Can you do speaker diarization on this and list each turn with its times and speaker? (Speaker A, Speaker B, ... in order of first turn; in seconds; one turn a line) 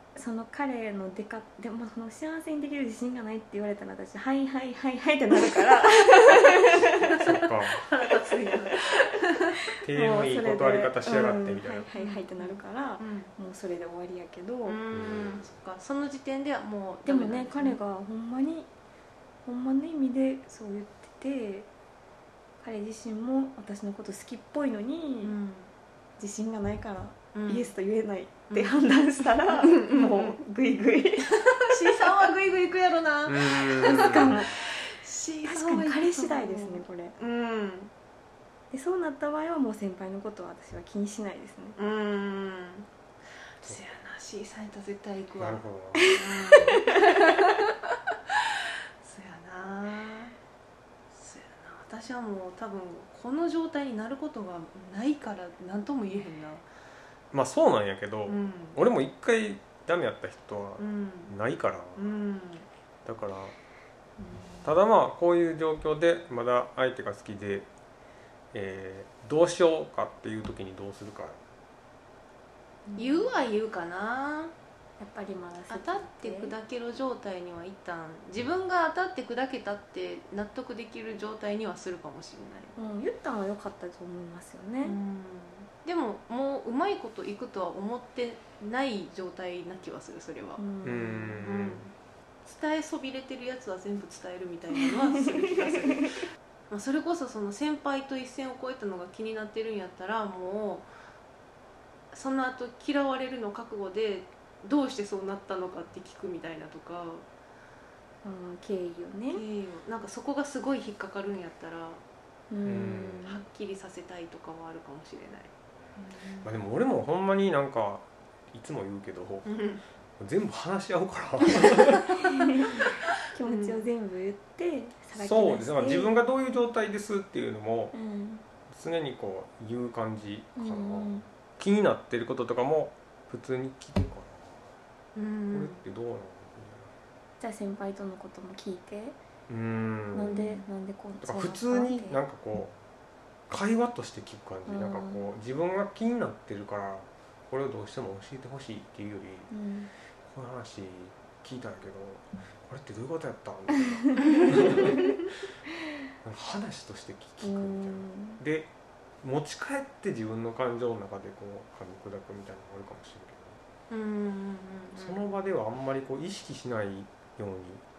Speaker A: 0.1-7.1
Speaker B: 6.4-9.6
Speaker C: 6.8-7.9
Speaker C: 9.8-11.9
Speaker A: 9.9-14.8
Speaker B: 11.9-13.3
Speaker B: 14.6-17.8
Speaker C: 14.9-15.5
Speaker A: 17.0-18.7
Speaker A: 19.4-21.7
Speaker A: 22.6-25.3
Speaker B: 25.2-25.7
Speaker A: 26.2-32.0
Speaker B: 27.3-27.7
Speaker B: 28.5-28.8
Speaker B: 29.4-30.4
Speaker B: 31.6-37.9
Speaker C: 33.2-34.4
Speaker A: 33.8-34.5
Speaker A: 35.4-37.1
Speaker A: 38.7-41.8
Speaker B: 41.8-42.9
Speaker B: 43.6-50.3
Speaker C: 45.4-46.2
Speaker A: 46.0-47.0
Speaker B: 51.1-56.6
Speaker C: 57.3-62.0
Speaker B: 58.2-58.8
Speaker B: 60.8-61.3
Speaker B: 62.0-62.6
Speaker C: 63.0-63.5
Speaker A: 64.2-64.6
Speaker C: 64.6-67.7
Speaker C: 68.5-71.4
Speaker A: 72.9-73.3
Speaker B: 73.0-74.5
Speaker A: 75.0-76.5
Speaker B: 75.7-82.8
Speaker A: 82.8-85.0
Speaker B: 84.8-90.6
Speaker A: 90.6-91.5
Speaker C: 90.8-91.8
Speaker B: 91.4-91.9
Speaker B: 92.4-100.9
Speaker A: 94.8-96.1
Speaker B: 102.1-107.2
Speaker A: 108.2-109.4
Speaker B: 109.3-112.0
Speaker A: 112.5-113.4
Speaker C: 112.6-113.3
Speaker B: 113.2-116.5
Speaker C: 116.4-119.6
Speaker B: 119.5-119.8
Speaker C: 120.2-122.8
Speaker A: 122.2-126.1
Speaker B: 123.4-123.8
Speaker C: 125.1-128.0
Speaker A: 127.9-128.4
Speaker C: 128.7-134.7
Speaker A: 130.6-131.3
Speaker B: 135.1-135.8
Speaker C: 135.5-136.9
Speaker A: 137.4-139.2
Speaker C: 139.5-140.5
Speaker A: 140.1-142.2
Speaker C: 141.2-142.7
Speaker C: 143.5-149.5
Speaker A: 144.7-145.3
Speaker A: 149.5-149.9
Speaker C: 150.2-155.2
Speaker A: 153.8-155.2
Speaker B: 154.2-154.7
Speaker C: 156.2-158.7
Speaker A: 157.4-158.4
Speaker C: 159.2-163.6
Speaker B: 163.9-165.2
Speaker C: 164.9-167.8